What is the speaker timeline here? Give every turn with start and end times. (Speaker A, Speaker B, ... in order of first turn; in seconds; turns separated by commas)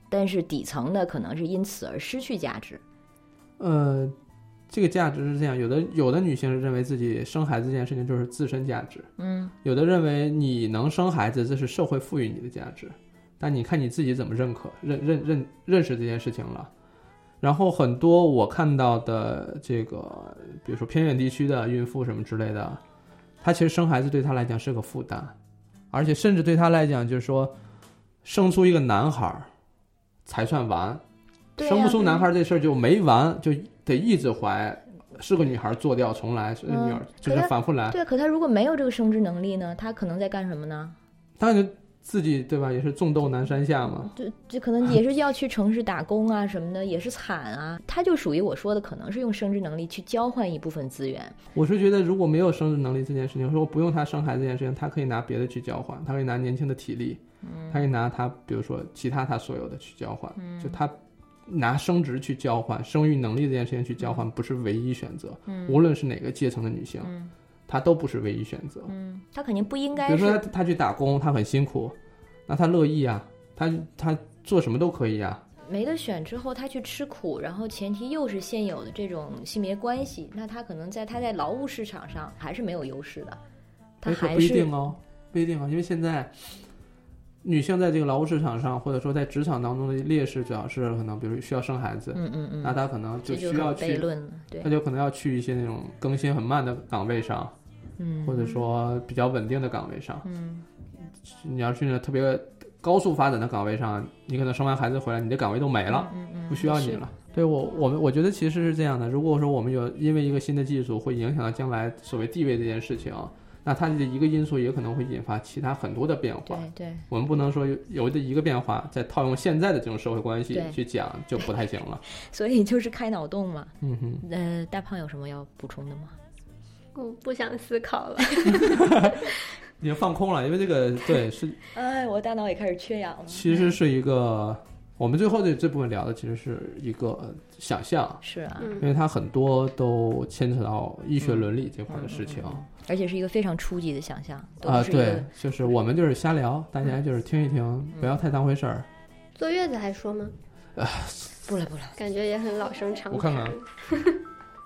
Speaker A: 0.1-2.8, Speaker B: 3.6-4.1, Speaker B: 4.7-9.1, Speaker A: 9.2-9.5, Speaker B: 9.6-16.7, Speaker B: 17.4-22.8, Speaker B: 23.4-25.3, Speaker B: 25.9-27.5, Speaker B: 28.2-29.5, Speaker B: 30.2-31.0, Speaker A: 31.6-32.2, Speaker B: 31.6-38.0, Speaker A: 36.7-41.0, Speaker B: 41.4-44.1, Speaker A: 44.0-51.4, Speaker B: 51.5-61.0, Speaker A: 57.4-57.8, Speaker A: 60.4-60.8, Speaker B: 61.5-67.1, Speaker A: 64.0-64.2, Speaker A: 65.5-65.8, Speaker A: 67.0-67.3, Speaker B: 67.7-68.9, Speaker A: 68.9-70.4, Speaker B: 70.0-72.0, Speaker B: 72.5-75.4, Speaker A: 75.6-83.4, Speaker A: 84.0-84.7, Speaker B: 84.0-86.6, Speaker B: 87.4-94.1, Speaker A: 92.1-94.7, Speaker B: 94.6-97.5, Speaker A: 98.0-98.6, Speaker B: 98.2-100.2, Speaker A: 100.2-100.6, Speaker B: 101.2-122.0, Speaker A: 105.9-107.0, Speaker A: 116.5-117.0, Speaker A: 120.5-120.8, Speaker A: 122.1-126.2, Speaker B: 123.8-124.2, Speaker C: 126.9-128.8, Speaker B: 128.5-131.6, Speaker A: 131.7-133.8, Speaker B: 133.3-138.2, Speaker A: 138.2-138.8, Speaker C: 138.6-138.9, Speaker B: 138.8-142.6, Speaker A: 141.2-145.3, Speaker B: 144.6-148.9, Speaker C: 149.3-150.3, Speaker B: 150.8-151.5, Speaker A: 151.5-151.9, Speaker C: 151.9-154.2, Speaker B: 153.1-153.6